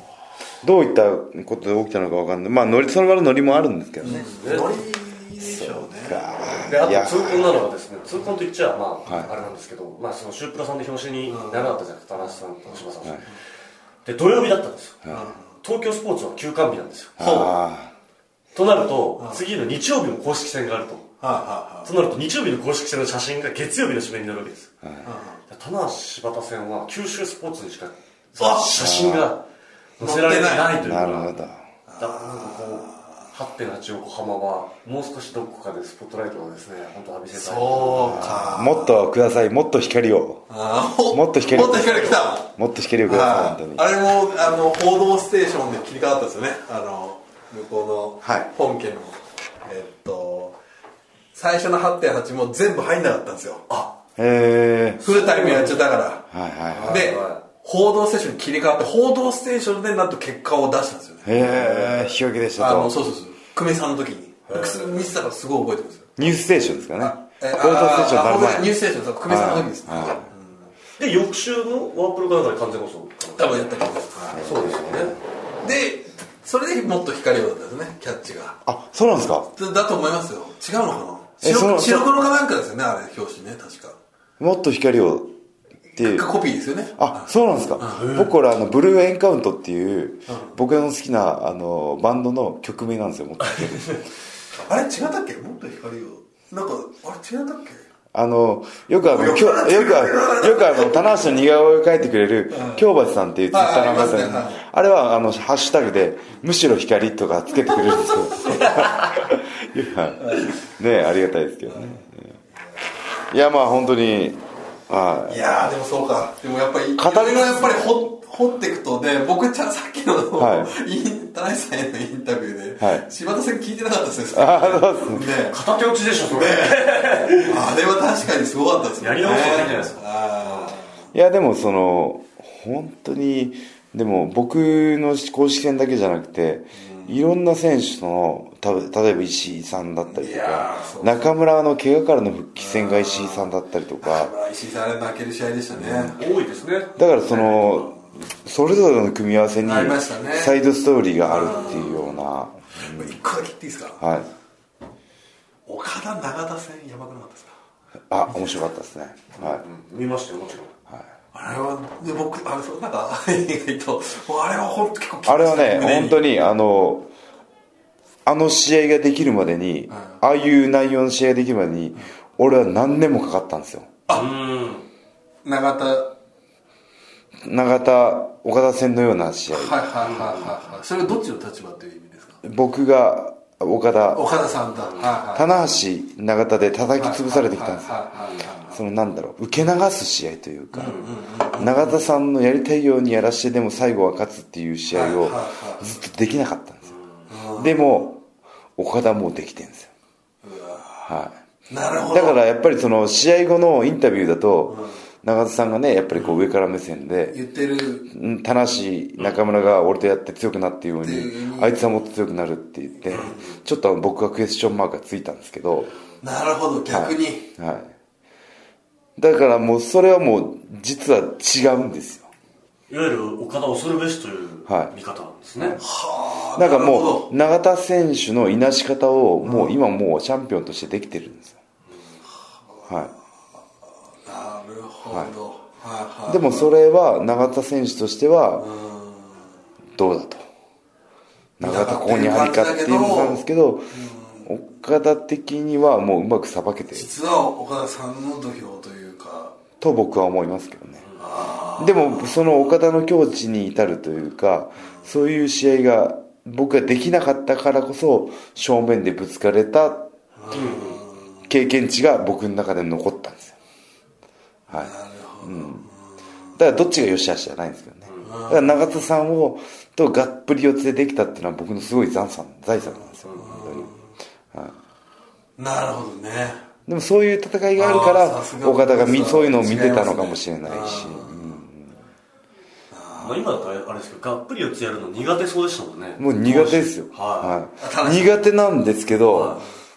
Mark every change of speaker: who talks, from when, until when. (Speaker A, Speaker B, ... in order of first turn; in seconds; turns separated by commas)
Speaker A: 0.6-4.3, Speaker B: 4.0-6.3, Speaker C: 4.0-4.7, Speaker A: 5.4-7.5, Speaker C: 6.7-13.2, Speaker A: 9.1-9.3, Speaker B: 11.3-12.8, Speaker C: 14.1-15.0, Speaker B: 15.1-15.5, Speaker C: 15.6-17.4, Speaker A: 17.2-17.9, Speaker B: 17.2-17.6, Speaker C: 18.5-21.1, Speaker B: 21.2-21.9, Speaker C: 21.9-24.7, Speaker B: 25.0-25.4, Speaker C: 25.5-29.4, Speaker B: 28.4-28.8, Speaker A: 28.8-29.3, Speaker C: 30.0-31.3, Speaker B: 30.0-30.8, Speaker A: 30.7-31.6, Speaker B: 31.9-33.3, Speaker C: 32.0-38.4, Speaker B: 37.3-39.0, Speaker A: 38.0-40.4, Speaker B: 40.5-42.5, Speaker A: 41.1-43.9, Speaker B: 43.0-50.6, Speaker A: 48.2-48.5, Speaker B: 51.3-53.7, Speaker A: 54.2-55.5, Speaker B: 55.0-56.3, Speaker C: 55.1-55.8, Speaker A: 56.3-57.1, Speaker C: 56.7-57.4, Speaker B: 56.9-66.3, Speaker A: 61.2-63.0, Speaker C: 64.5-65.1, Speaker A: 66.2-70.3, Speaker B: 67.0-70.7, Speaker C: 71.0-73.7, Speaker B: 73.4-74.5, Speaker A: 74.3-75.2, Speaker C: 74.3-75.2, Speaker B: 75.6-78.6, Speaker A: 78.7-79.5, Speaker B: 79.5-84.0, Speaker A: 81.4-82.1, Speaker A: 84.4-85.3, Speaker B: 86.0-87.3, Speaker A: 86.0-86.3, Speaker A: 87.0-94.0, Speaker B: 87.8-88.2, Speaker C: 87.9-88.3, Speaker B: 90.3-90.5, Speaker B: 94.6-97.8, Speaker A: 98.1-112.3, Speaker B: 99.0-101.3, Speaker B: 102.5-102.8, Speaker B: 103.5-104.6, Speaker B: 107.7-108.9, Speaker B: 110.2-110.5, Speaker A: 113.3-115.5, Speaker B: 115.3-125.6, Speaker A: 117.0-117.9, Speaker A: 120.4-120.7, Speaker A: 122.8-123.1, Speaker A: 124.3-125.2, Speaker C: 125.3-127.7, Speaker B: 126.3-126.8, Speaker B: 127.4-130.9, Speaker C: 129.0-130.8, Speaker A: 131.1-144.3, Speaker B: 136.8-137.2, Speaker B: 140.1-141.3, Speaker B: 142.6-146.2, Speaker A: 145.7-146.1, Speaker C: 146.1-146.9, Speaker A: 147.0-153.2, Speaker B: 147.2-148.0, Speaker B: 149.6-150.6, Speaker B: 151.2-152.1, Speaker B: 152.8-154.0, Speaker A: 154.0-154.3, Speaker B: 155.7-157.6, Speaker A: 158.1-159.6, Speaker C: 159.4-160.7, Speaker B: 161.3-166.2, Speaker A: 165.3-167.1, Speaker A: 168.2-174.0, Speaker B: 174.1-174.3, Speaker C: 174.1-174.9, Speaker B: 175.4-176.1, Speaker A: 177.4-179.8, Speaker B: 179.5-182.4, Speaker C: 180.1-180.3, Speaker A: 182.4-184.3, Speaker B: 184.1-185.5, Speaker C: 184.9-185.1, Speaker A: 185.3-188.1, Speaker B: 187.0-188.8, Speaker A: 188.7-196.9, Speaker B: 190.7-192.0, Speaker B: 194.9-195.9, Speaker B: 197.3-197.8, Speaker A: 197.6-198.2, Speaker A: 198.8-199.9, Speaker B: 200.4-201.1, Speaker A: 201.1-201.4, Speaker B: 201.7-202.4, Speaker A: 202.1-207.4, Speaker B: 207.3-208.1, Speaker A: 208.1-215.9, Speaker B: 211.0-211.9, Speaker C: 213.2-213.5, Speaker B: 216.2-217.5, Speaker A: 216.9-217.9, Speaker A: 219.2-222.3, Speaker C: 222.9-225.8, Speaker A: 224.7-224.9, Speaker B: 225.8-227.3, Speaker A: 226.6-231.6, Speaker B: 229.4-229.8, Speaker B: 234.2-236.8, Speaker A: 236.3-238.7, Speaker B: 238.6-239.5, Speaker A: 240.0-240.4, Speaker A: 241.6-243.9, Speaker B: 241.6-244.5, Speaker A: 244.4-247.1, Speaker B: 246.9-249.6, Speaker A: 249.8-251.1, Speaker B: 251.2-252.4, Speaker A: 251.8-260.1, Speaker B: 260.4-261.5, Speaker C: 260.5-261.0, Speaker A: 261.5-263.6, Speaker A: 264.7-265.9, Speaker B: 264.7-266.0, Speaker A: 266.6-273.9, Speaker B: 268.2-268.8, Speaker B: 273.3-274.0, Speaker B: 275.6-276.6, Speaker A: 276.9-282.0, Speaker B: 277.8-281.6, Speaker B: 282.9-283.7, Speaker C: 283.2-287.6, Speaker A: 286.2-289.6, Speaker B: 287.8-288.4, Speaker C: 289.3-289.6